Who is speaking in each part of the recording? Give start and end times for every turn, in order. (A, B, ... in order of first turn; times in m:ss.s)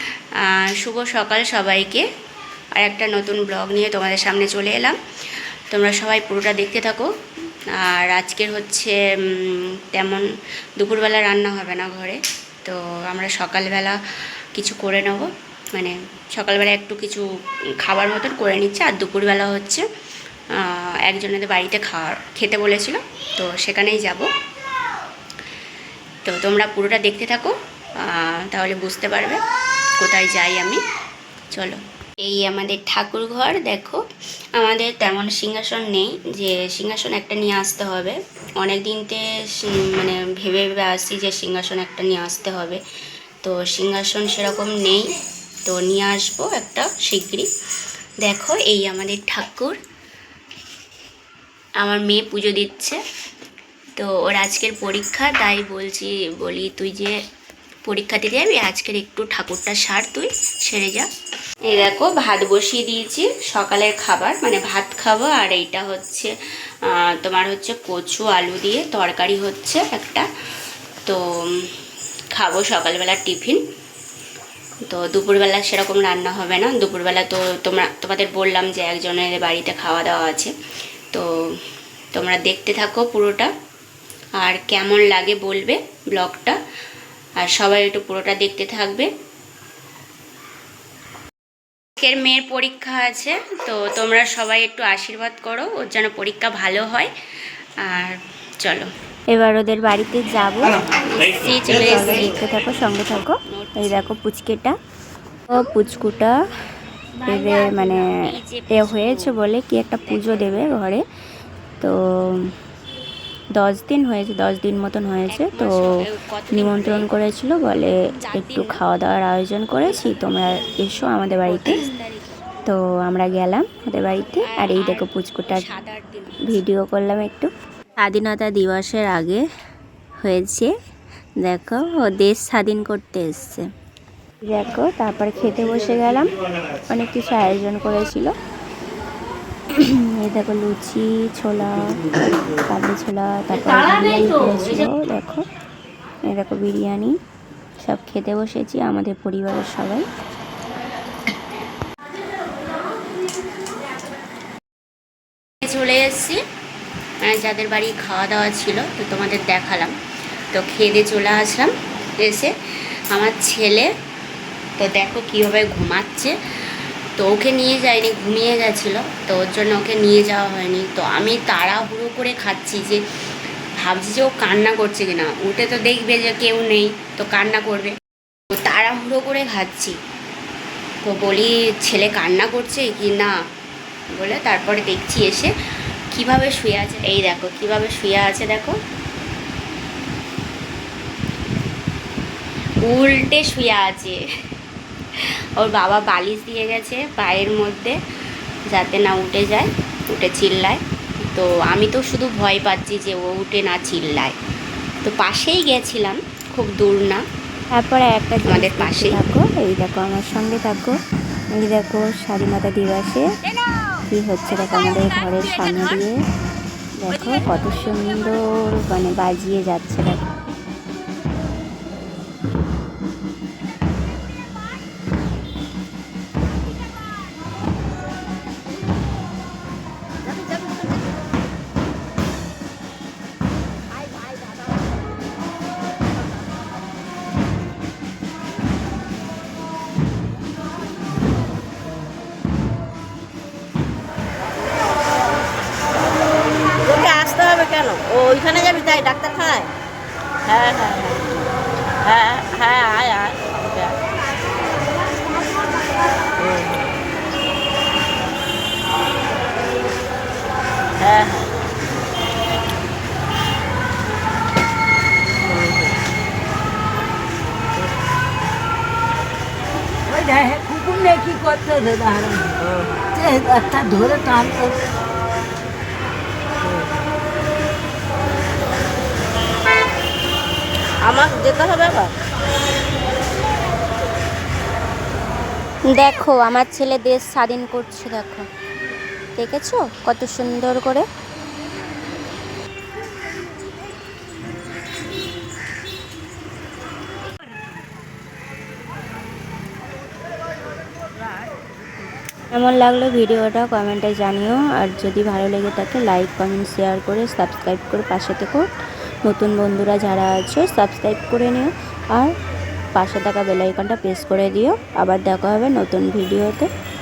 0:00.4-0:02.0 A
0:02.8-0:05.0 A
0:05.7-0:07.1 A
0:07.8-0:10.2 A
0:10.8-0:14.0 A
0:14.5-0:17.2 A
0:17.8-0:19.8 A
0:20.6-0:24.3 A
0:26.2-0:27.5 A
0:28.0-0:29.4 A
0:30.0-0:30.8 A
0:31.5-0:34.0 A
0:34.6-0:42.8 A
0:43.4-0:45.1 A
0:45.6-0:47.5 A
0:48.2-0:49.8 A
0:51.8-0:53.0 A
0:54.0-0:57.1 A
0:57.8-1:01.0 A
1:01.7-1:06.3 A
1:06.9-1:10.2 A
1:11.0-1:11.6 A
1:12.3-1:13.6 A
1:14.9-1:20.5 A
1:22.1-1:23.5 A
1:24.4-1:26.6 A
1:27.4-1:29.1 A
1:32.0-1:37.1 A
1:37.9-1:38.9 A
1:39.3-1:40.7 B
1:41.1-1:42.4 A
1:41.7-1:44.8 B
1:43.5-1:44.1 A
1:45.5-1:46.3 B
1:47.2-1:48.1 B
1:47.7-1:49.4 A
1:48.7-1:51.0 B
1:50.0-1:50.8 A
1:51.8-1:52.5 B
1:53.6-1:55.7 B
1:55.3-1:57.1 A
1:56.5-2:01.7 B
1:58.2-1:58.8 A
2:01.4-2:01.9 A
2:02.6-2:05.6 B
2:04.4-2:06.6 A
2:06.4-2:07.5 B
2:08.0-2:09.4 B
2:10.2-2:10.7 B
2:11.4-2:13.6 B
2:14.4-2:16.3 B
2:16.9-2:18.3 B
2:19.7-2:25.4 B
2:26.3-2:27.1 B
2:27.8-2:30.0 B
2:35.6-2:36.4 A
2:37.2-2:39.9 A
2:40.5-2:42.5 A
2:43.1-2:43.9 A
2:44.8-2:46.3 A
2:47.2-2:53.0 A
2:53.8-2:57.9 A
2:58.5-2:59.9 A
3:01.0-3:03.3 A
3:04.2-3:05.5 A
3:06.1-3:08.8 A
3:12.8-3:14.2 A
3:15.6-3:18.0 A
3:18.7-3:20.8 A
3:21.3-3:24.4 A
3:25.0-3:27.2 A
3:27.7-3:30.9 B
3:28.5-3:29.2 A
3:31.5-3:33.2 B
3:34.1-3:36.1 B
3:37.0-3:40.2 B
4:06.8-4:09.7 C
4:10.5-4:11.3 C
4:12.0-4:14.0 C
4:16.4-4:16.8 C
4:21.0-4:21.5 C
4:30.1-4:34.8 D
4:41.0-4:42.1 C
4:45.9-4:48.4 B
4:49.4-4:51.0 B
5:02.5-5:08.6 B
5:09.2-5:12.3 B
5:13.0-5:16.7 B